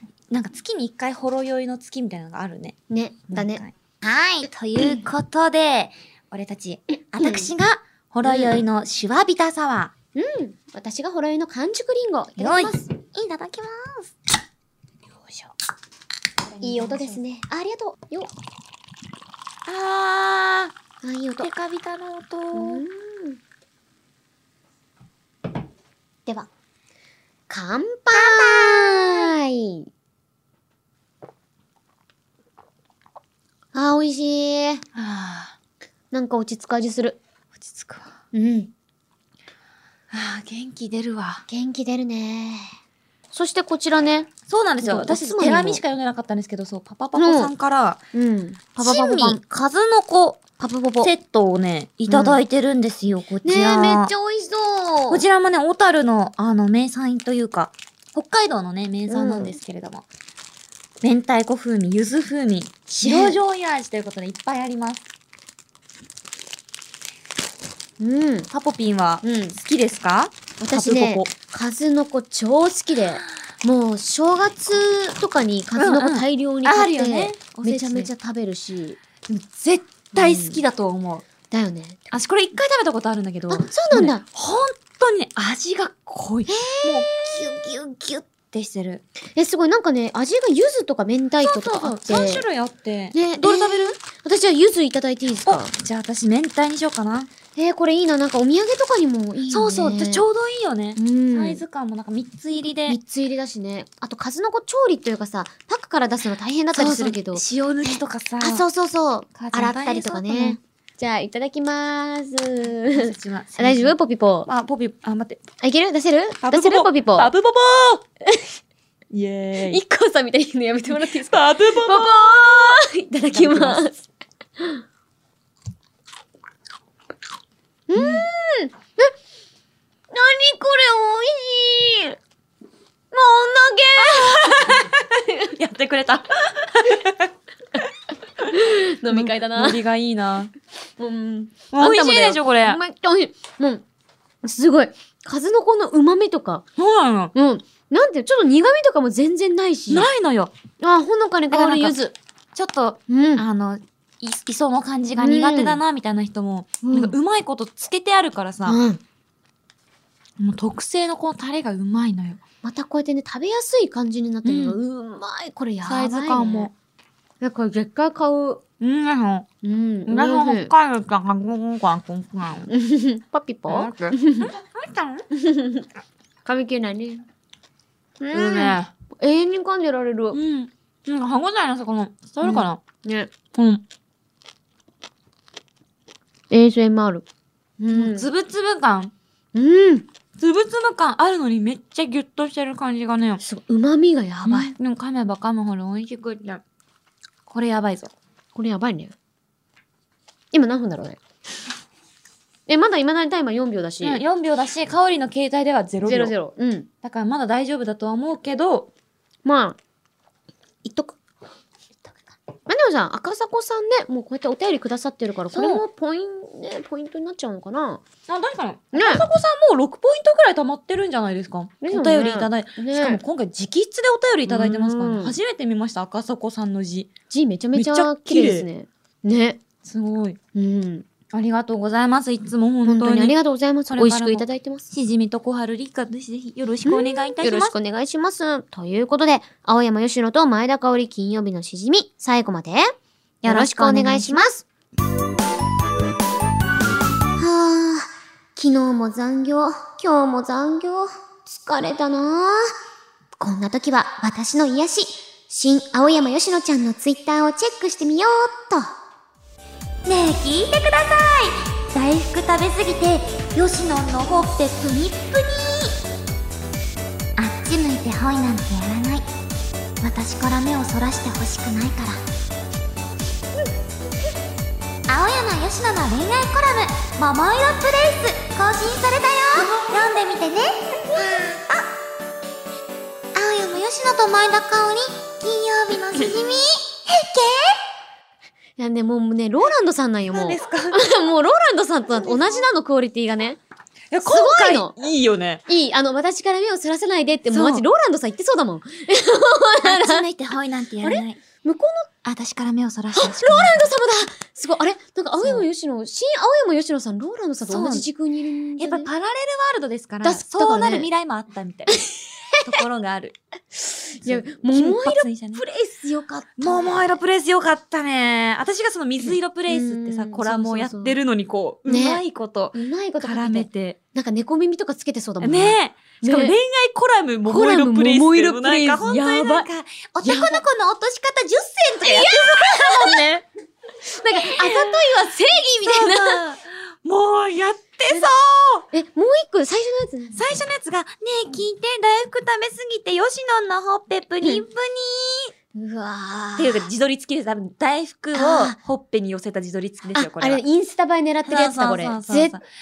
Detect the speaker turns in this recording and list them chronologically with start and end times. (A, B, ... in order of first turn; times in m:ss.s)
0:00.3-0:02.8 A
0:02.9-0:03.6 B
0:03.3-0:09.9 A
0:07.2-0:07.5 B
0:08.2-0:08.5 B
0:10.2-0:12.9 B
0:12.4-0:14.1 A
0:15.2-0:15.5 A
0:16.4-0:17.2 A
0:16.6-0:18.3 B
0:19.7-0:20.7 A
0:21.0-0:21.5 B
0:21.4-0:22.8 A
0:22.5-0:23.4 B
0:27.5-0:29.9 B
0:28.1-0:29.3 A
0:33.7-0:34.8 B
0:35.0-0:35.6 A
0:36.1-0:37.2 B
0:37.5-0:38.1 A
0:38.3-0:38.7 B
0:40.1-0:41.4 A
0:41.5-0:42.7 B
0:43.3-0:45.8 B
0:44.5-0:48.0 A
0:47.2-0:47.5 B
0:48.1-0:49.4 B
0:48.8-0:50.4 A
0:50.6-0:51.1 B
0:51.0-0:54.1 A
0:52.1-0:52.4 B
0:53.4-0:55.2 B
0:55.1-1:00.1 A
0:59.1-0:59.6 B
1:01.0-1:05.1 A
1:03.0-1:03.4 B
1:08.0-1:08.5 B
1:08.5-1:11.3 A
1:09.2-1:09.6 B
1:10.6-1:19.0 B
1:15.8-1:18.1 A
1:19.3-1:21.3 A
1:20.2-1:20.6 B
1:21.5-1:22.1 B
1:22.1-1:29.0 A
1:23.5-1:24.2 B
1:26.5-1:27.6 B
1:29.4-1:32.4 B
1:31.4-1:34.0 A
1:33.1-1:35.7 B
1:35.4-1:37.3 A
1:37.6-1:40.2 B
1:39.5-1:43.0 A
1:41.0-1:41.6 B
1:42.9-1:54.5 B
1:46.7-1:48.7 A
1:49.4-1:50.6 A
1:52.9-1:54.0 A
1:54.5-1:55.4 A
1:55.6-1:57.3 B
1:56.4-1:58.0 A
1:59.1-1:59.8 A
1:59.6-2:04.1 B
2:01.0-2:03.9 A
2:07.9-2:09.1 B
2:08.0-2:08.3 A
2:10.1-2:12.2 B
2:13.1-2:15.5 B
2:14.0-2:17.3 A
2:18.5-2:19.8 B
2:19.1-2:20.5 A
2:21.0-2:23.8 B
2:21.7-2:22.8 A
2:24.4-2:26.6 B
2:26.8-2:27.3 A
2:27.4-2:30.1 B
2:29.9-2:30.5 A
2:30.8-2:32.2 B
2:31.5-2:32.0 A
2:32.5-2:38.8 A
2:33.1-2:33.4 B
2:35.2-2:35.8 B
2:36.8-2:37.2 B
2:38.6-2:39.0 B
2:40.4-2:42.4 A
2:42.6-2:46.7 B
2:44.4-2:44.8 A
2:45.8-2:46.7 A
2:47.4-2:48.6 B
2:48.8-2:49.5 A
2:49.6-2:50.7 B
2:50.1-2:52.7 A
2:52.7-2:54.5 B
2:53.7-2:55.2 A
2:55.3-2:55.9 B
2:56.4-2:57.2 B
2:58.2-3:00.4 B
2:58.3-2:58.9 A
3:00.3-3:02.8 A
3:02.4-3:03.3 B
3:03.5-3:03.8 A
3:06.5-3:07.2 B
3:07.8-3:08.3 B
3:07.9-3:09.1 A
3:09.5-3:10.1 B
3:10.4-3:13.4 A
3:13.4-3:14.7 B
3:14.5-3:16.6 A
3:17.5-3:18.1 A
3:18.6-3:19.2 B
3:20.5-3:21.2 B
3:22.7-3:24.2 B
3:24.0-3:26.3 A
3:26.0-3:26.9 B
3:27.0-3:28.9 A
3:29.4-3:29.8 B
3:30.8-3:31.2 B
3:32.7-3:38.0 B
3:35.5-3:35.8 A
3:38.3-3:47.1 A
3:38.9-3:39.2 B
3:41.8-3:43.2 B
3:44.5-3:45.4 B
3:47.3-3:49.6 B
3:47.8-3:48.7 A
3:49.8-3:50.4 A
3:50.6-3:51.1 B
3:51.3-3:53.4 A
3:52.8-3:54.8 B
3:53.9-3:57.8 A
3:56.9-4:02.9 B
4:03.4-4:04.5 A
4:03.4-4:04.6 B
4:07.4-4:12.7 B
4:13.4-4:18.9 B
4:20.0-4:26.0 A
4:27.4-4:29.3 A
4:30.0-4:32.2 A
4:35.1-4:41.9 A
4:39.6-4:39.9 B
4:41.1-4:41.5 B
4:43.3-4:47.8 A
4:48.8-4:53.6 B
4:50.3-4:51.0 A
4:52.1-4:52.7 A
4:54.1-4:55.6 A
4:54.2-4:54.9 B
4:55.7-5:00.2 B
4:57.5-4:57.8 A
4:59.8-5:01.4 A
5:01.0-5:02.1 B
5:02.2-5:03.9 A
5:03.1-5:09.1 B
5:05.4-5:05.7 A
5:07.6-5:08.1 A
5:08.8-5:12.0 A
5:10.2-5:11.1 B
5:12.0-5:12.6 B
5:12.6-5:13.4 A
5:13.8-5:17.1 B
5:14.2-5:15.6 A
5:16.6-5:24.0 A
5:19.2-5:21.2 B
5:21.9-5:22.2 B
5:22.7-5:26.6 B
5:25.4-5:33.5 A
5:27.5-5:29.7 B
5:30.2-5:30.6 B
5:32.0-5:33.2 B
5:34.0-5:36.4 B
5:34.3-5:35.1 A
5:35.8-5:38.9 A
5:38.9-5:40.5 B
5:40.4-5:45.5 A
5:45.8-5:46.9 B
5:46.6-5:50.6 A
5:48.3-5:48.8 B
5:50.1-5:52.6 B
5:51.5-5:52.6 A